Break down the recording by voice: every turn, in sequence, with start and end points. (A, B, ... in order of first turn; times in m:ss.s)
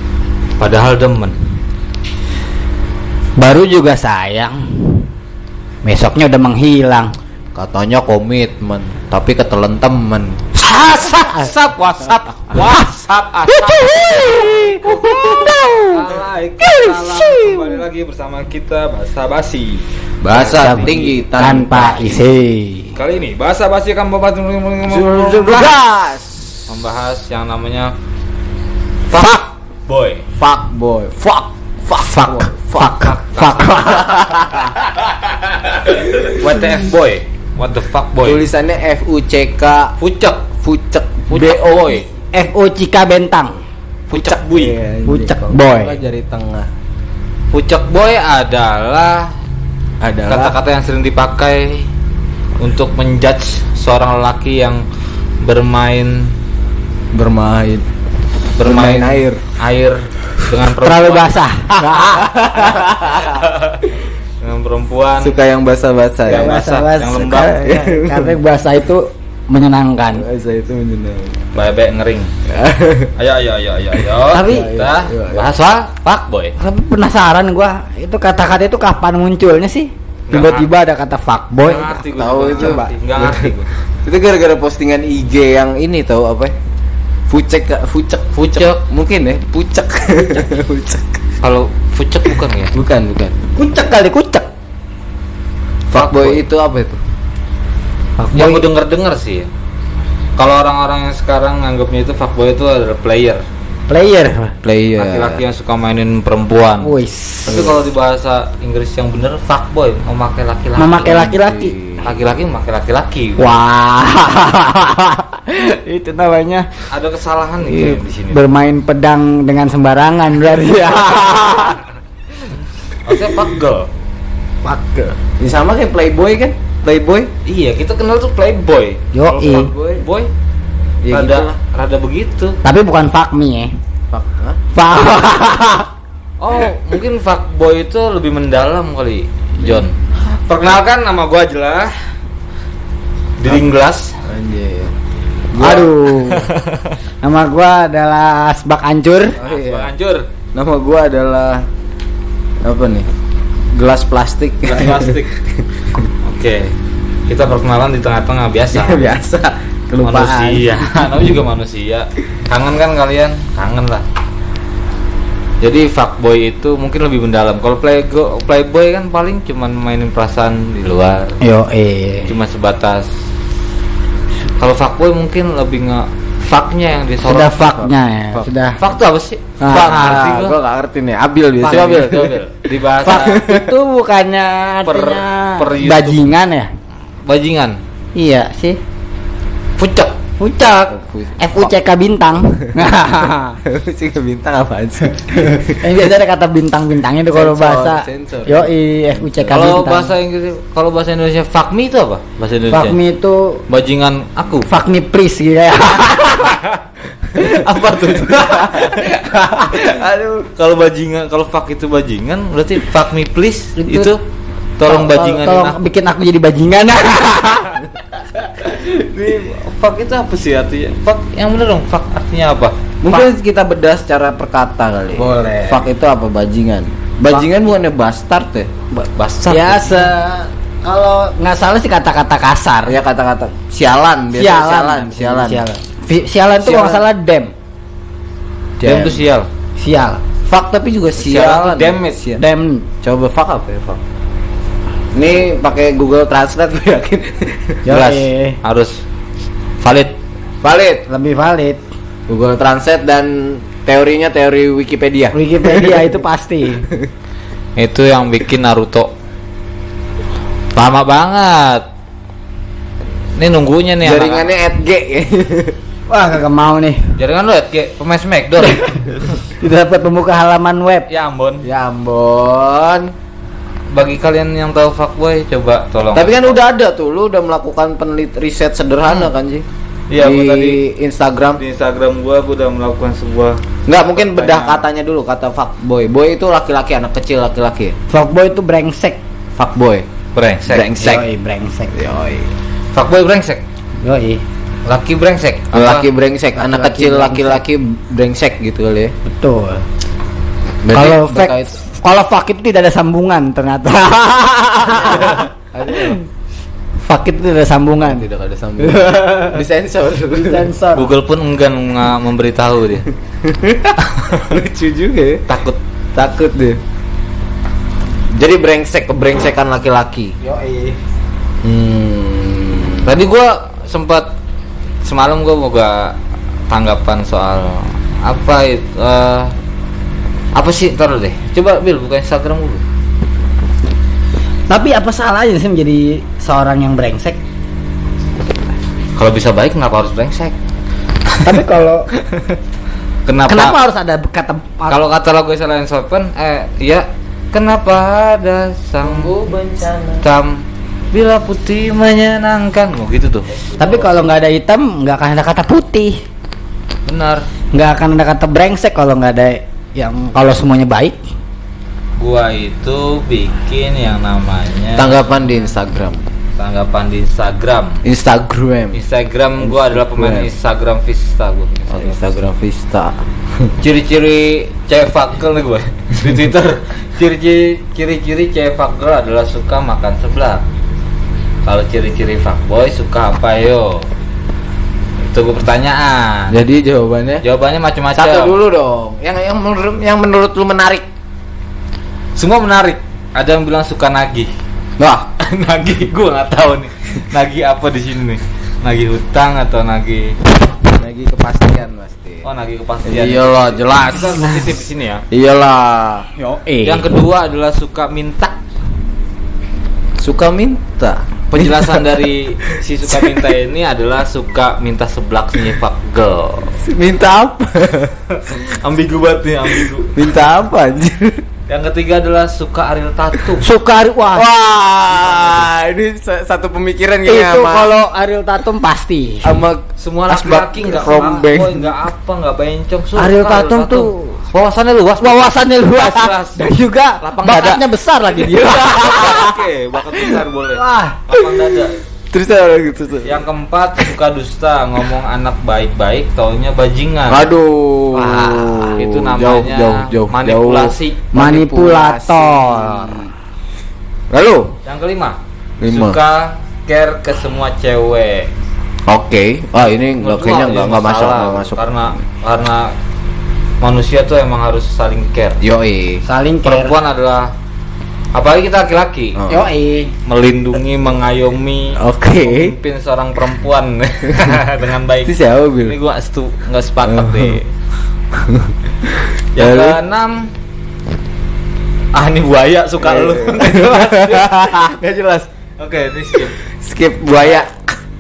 0:00.6-0:01.4 A
0:03.4-0:05.1 B
0:05.8-0:07.1 B
0:07.6-0:10.4 C
0:10.6-0:11.5 B
0:10.7-0:21.1 A
0:13.5-0:16.0 B
0:14.5-0:15.9 C
0:16.7-0:17.8 C
0:20.2-0:22.2 C
0:20.6-0:23.0 B
0:23.0-0:25.8 A
0:24.9-0:26.7 C
0:25.2-0:25.7 B
0:26.7-0:27.9 A
0:29.1-0:30.2 A
0:30.4-0:33.0 C
0:32.0-0:34.5 B
0:32.9-0:38.4 A
0:34.0-0:34.8 C
0:38.2-0:40.0 C
0:40.0-0:40.5 A
0:40.6-0:42.0 C
0:41.3-0:42.0 A
0:42.1-0:43.6 B
0:44.1-0:44.8 A
0:44.1-0:46.7 C
0:45.1-0:46.0 B
0:47.5-0:49.3 A
0:50.0-0:50.6 C
0:50.3-0:51.9 A
0:52.6-0:54.8 A
0:55.4-0:56.3 A
0:57.1-0:57.9 C
0:58.6-1:01.4 A
0:58.6-0:59.4 C
1:00.8-1:02.3 B
1:01.8-1:03.5 C
1:03.1-1:05.4 A
1:05.2-1:06.6 C
1:06.3-1:07.6 A
1:06.3-1:10.3 B
1:07.4-1:08.4 C
1:10.2-1:11.4 C
1:11.5-1:12.3 A
1:12.5-1:13.1 C
1:13.2-1:16.6 A
1:14.3-1:14.8 B
1:14.4-1:15.4 C
1:16.6-1:22.9 B
1:20.3-1:20.7 A
1:21.6-1:23.7 A
1:22.2-1:23.5 C
1:24.0-1:26.5 C
1:27.3-1:31.2 C
1:28.4-1:28.8 A
1:31.4-1:32.7 A
1:32.7-1:33.4 C
1:33.6-1:34.5 B
1:35.9-1:36.4 A
1:35.9-1:37.0 C
1:38.2-1:38.7 B
1:38.3-1:39.5 A
1:40.4-1:43.4 A
1:43.9-1:44.5 B
1:44.6-1:45.4 C
1:45.0-1:51.3 A
1:46.8-1:47.7 B
1:47.5-1:47.8 C
1:50.8-1:51.8 B
1:51.1-1:52.1 C
1:52.0-1:53.6 A
1:53.4-1:56.7 B
1:56.9-1:58.4 A
1:57.6-2:01.8 B
2:03.0-2:03.9 A
2:04.6-2:05.2 B
2:05.4-2:07.3 C
2:07.4-2:10.3 A
2:09.1-2:09.7 B
2:09.4-2:10.0 C
2:11.0-2:11.6 C
2:11.1-2:12.6 A
2:12.6-2:13.7 B
2:14.1-2:14.6 C
2:14.7-2:15.9 B
2:16.4-2:22.0 A
2:23.4-2:24.2 A
2:24.3-2:24.9 C
2:25.5-2:26.5 B
2:25.6-2:25.9 C
2:25.6-2:27.0 A
2:27.2-2:29.4 B
2:29.4-2:29.9 C
2:29.4-2:30.3 A
2:30.5-2:31.7 C
2:32.6-2:33.1 C
2:33.7-2:35.2 C
2:34.6-2:35.3 A
2:36.2-2:36.7 A
2:37.3-2:39.1 A
2:38.7-2:40.9 C
2:40.0-2:44.0 A
2:45.6-2:51.4 A
2:51.4-2:52.4 B
2:52.3-2:53.1 A
2:54.6-2:57.9 A
2:57.2-2:58.8 B
2:58.8-3:00.6 A
2:59.6-3:00.3 B
2:59.7-3:02.4 C
3:01.6-3:03.4 A
3:03.0-3:03.7 C
3:03.0-3:06.7 B
3:04.8-3:06.3 A
3:07.2-3:07.8 A
3:08.2-3:08.8 B
3:09.8-3:10.2 A
3:10.4-3:13.6 B
3:10.9-3:11.7 C
3:13.6-3:15.8 C
3:15.7-3:20.1 B
3:17.3-3:19.8 C
3:19.5-3:23.0 A
3:22.7-3:23.6 B
3:23.7-3:24.7 A
3:24.7-3:26.6 B
3:27.3-3:29.2 A
3:28.3-3:29.0 C
3:29.2-3:29.8 B
3:29.7-3:30.5 C
3:30.5-3:34.2 A
3:33.8-3:34.1 B
3:34.8-3:35.8 A
3:34.8-3:37.8 B
3:38.6-3:43.0 A
3:43.0-3:48.7 C
3:45.2-3:45.8 B
3:48.9-3:53.0 B
3:49.2-3:50.1 A
3:52.9-3:55.6 C
3:54.4-3:57.5 B
3:56.6-3:57.0 C
3:58.8-3:59.2 C
3:58.8-3:59.5 A
3:59.8-4:00.2 B
4:00.5-4:02.4 C
4:01.2-4:02.2 A
4:02.4-4:02.9 B
4:03.0-4:04.0 C
4:05.2-4:07.8 C
4:07.8-4:08.6 B
4:07.9-4:09.0 A
4:09.8-4:10.2 A
4:10.6-4:11.1 C
4:11.1-4:11.8 B
4:12.3-4:16.2 C
4:15.3-4:16.9 B
4:17.8-4:19.1 A
4:20.8-4:21.9 A
4:23.4-4:24.5 A
4:24.0-4:25.8 C
4:26.1-4:27.2 B
4:27.2-4:29.4 A
4:29.5-4:31.1 B
4:31.1-4:31.6 A
4:31.6-4:33.1 C
4:33.9-4:36.6 A
4:36.2-4:39.6 C
4:40.1-4:40.8 A
4:40.2-4:41.6 C
4:41.6-4:43.6 A
4:43.9-4:48.0 C
4:44.2-4:44.8 A
4:48.1-4:49.2 B
4:49.6-4:50.0 C
4:50.4-4:50.9 A
4:50.7-4:51.3 C
4:51.0-4:51.9 B
4:51.9-4:52.5 C
4:53.0-4:53.6 A
4:54.0-4:54.4 B
4:54.9-4:56.1 A
4:55.7-4:59.1 C
4:56.6-4:57.6 B
4:59.2-4:59.8 B
5:00.8-5:01.8 C
5:00.9-5:06.2 B
5:04.9-5:06.2 C
5:07.0-5:08.2 B
5:08.0-5:10.7 C
5:08.8-5:09.6 B
5:10.4-5:11.1 B
5:10.9-5:13.1 A
5:13.4-5:15.4 C
5:14.0-5:14.5 A
5:15.5-5:15.8 A
5:16.2-5:16.8 C
5:18.4-5:20.4 C
5:20.4-5:21.0 B
5:21.6-5:23.1 C
5:23.0-5:24.3 A
5:25.0-5:26.2 A
5:26.7-5:29.5 A
5:30.5-5:32.8 A
5:34.7-5:37.4 B
5:39.2-5:40.6 A
5:41.4-5:42.1 B
5:43.3-5:43.8 A
5:43.5-5:45.0 B
5:44.9-5:49.3 A
5:49.0-5:50.2 C
5:50.2-5:53.5 A
5:53.6-5:54.1 C
5:53.8-5:56.2 B
5:57.1-5:57.4 A
5:57.7-6:01.2 B
6:02.2-6:05.6 A
6:05.0-6:06.3 C
6:06.6-6:08.0 A
6:08.0-6:09.0 C
6:08.9-6:12.2 A
6:09.6-6:10.5 C
6:11.9-6:13.7 C
6:13.8-6:20.6 A
6:21.6-6:24.1 A
6:25.3-6:26.6 A
6:26.5-6:27.4 C
6:27.4-6:28.6 A
6:28.2-6:31.0 C
6:32.4-6:34.5 A
6:35.0-6:35.3 C
6:35.4-6:40.4 A
6:41.0-6:42.5 C
6:42.4-6:45.3 A
6:43.1-6:44.4 C
6:44.4-6:44.7 B
6:45.3-6:46.3 C
6:46.4-6:47.2 B
6:46.8-6:48.6 A
6:50.2-6:52.2 C
6:51.5-6:56.8 A
6:53.1-6:53.4 C
6:56.8-6:58.2 C
6:58.3-7:00.2 A
7:00.2-7:01.4 C
7:01.7-7:03.7 A
7:03.6-7:04.5 B
7:04.3-7:07.9 C
7:07.3-7:09.6 B
7:09.4-7:11.9 C
7:10.0-7:22.0 A
7:11.0-7:11.5 B
7:13.2-7:14.4 B
7:15.2-7:19.6 B
7:20.7-7:21.2 B
7:22.3-7:23.4 C
7:23.2-7:27.4 A
7:27.3-7:33.3 C
7:28.1-7:31.3 A
7:31.3-7:33.2 B
7:34.3-7:34.8 C
7:34.8-7:38.5 A
7:35.8-7:36.2 C
7:39.1-7:41.8 C
7:40.2-7:42.9 A
7:43.8-7:45.6 A
7:45.6-7:46.2 C
7:46.2-7:47.0 B
7:46.6-7:47.5 A
7:48.3-7:49.4 A
7:49.4-7:49.7 C
7:49.5-7:50.1 B
7:50.3-7:55.3 A
7:52.0-7:52.7 C
7:55.3-7:56.0 C
7:55.9-7:57.7 A
7:57.1-7:57.6 C
7:58.4-8:00.0 C
7:59.6-8:00.5 A
8:02.1-8:04.8 A
8:03.0-8:05.5 C
8:05.8-8:06.6 A
8:06.6-8:08.0 C
8:07.3-8:07.6 A